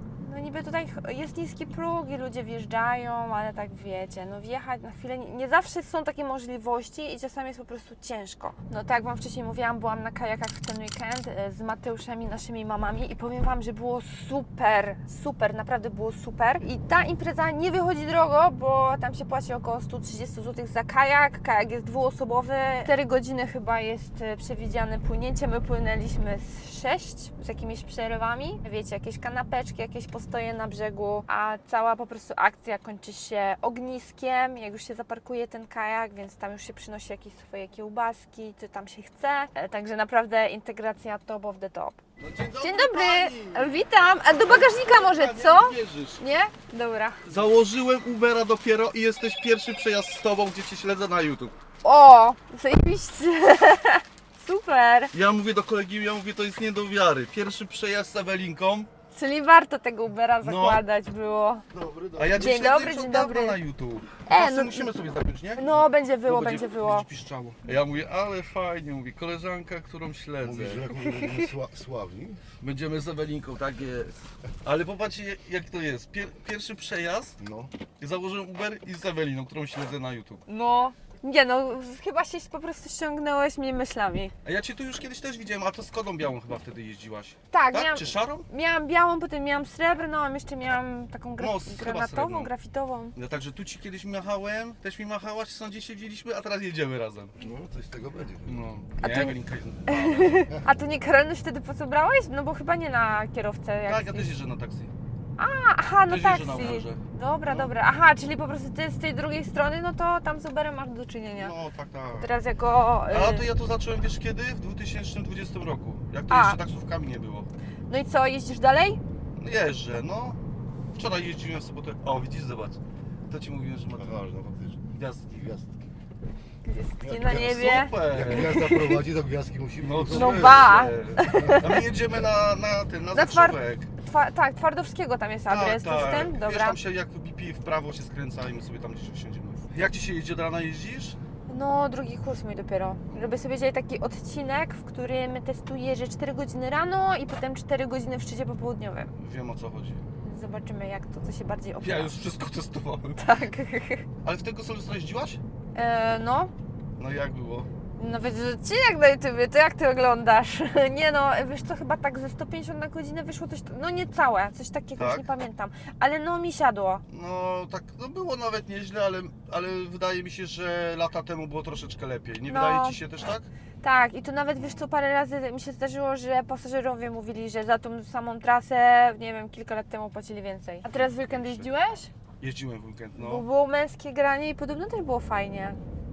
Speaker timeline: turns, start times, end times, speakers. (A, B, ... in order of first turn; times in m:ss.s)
0:00.2-0:42.0 A
0:42.2-0:43.8 B
0:42.6-0:47.2 A
0:44.4-0:46.2 B
0:47.2-0:51.6 B
0:51.8-0:55.1 A
0:55.1-0:58.9 B
0:59.1-1:01.6 A
1:00.4-1:00.8 B
1:01.7-1:02.7 C
1:02.2-1:10.9 B
1:02.4-1:03.6 A
1:04.2-1:04.9 A
1:05.6-1:07.1 A
1:10.4-1:12.4 C
1:11.0-1:11.5 A
1:12.6-1:17.4 B
1:17.4-1:17.7 C
1:18.0-1:20.4 B
1:20.5-1:24.3 A
1:24.4-1:28.4 B
1:27.5-1:33.1 A
1:31.4-1:32.5 B
1:33.1-1:37.3 B
1:37.4-1:38.6 C
1:38.4-1:40.5 B
1:39.0-1:39.4 A
1:39.9-1:44.3 A
1:43.8-1:44.9 B
1:45.4-1:51.5 A
1:46.1-1:47.7 B
1:51.3-1:52.3 B
1:52.2-1:53.5 A
1:53.1-1:57.5 B
1:56.3-1:56.6 A
1:57.9-1:59.0 A
1:59.4-2:00.4 B
2:00.9-2:04.2 B
2:03.9-2:05.7 C
2:04.9-2:05.3 B
2:06.6-2:09.0 A
2:07.0-2:11.7 C
2:07.2-2:08.7 B
2:09.8-2:13.9 B
2:10.1-2:11.8 A
2:13.1-2:16.8 A
2:15.5-2:21.2 B
2:21.5-2:29.1 A
2:23.1-2:23.4 B
2:29.2-2:30.0 B
2:30.2-2:32.2 A
2:31.8-2:33.2 B
2:33.2-2:34.0 A
2:34.2-2:35.4 B
2:35.7-2:36.5 A
2:37.0-2:37.7 B
2:38.0-2:47.0 A
2:45.0-2:45.3 B
2:47.1-2:53.5 B
2:52.5-2:53.0 A
2:53.8-3:02.1 A
3:00.9-3:01.7 B
3:02.4-3:03.4 B
3:03.2-3:05.8 A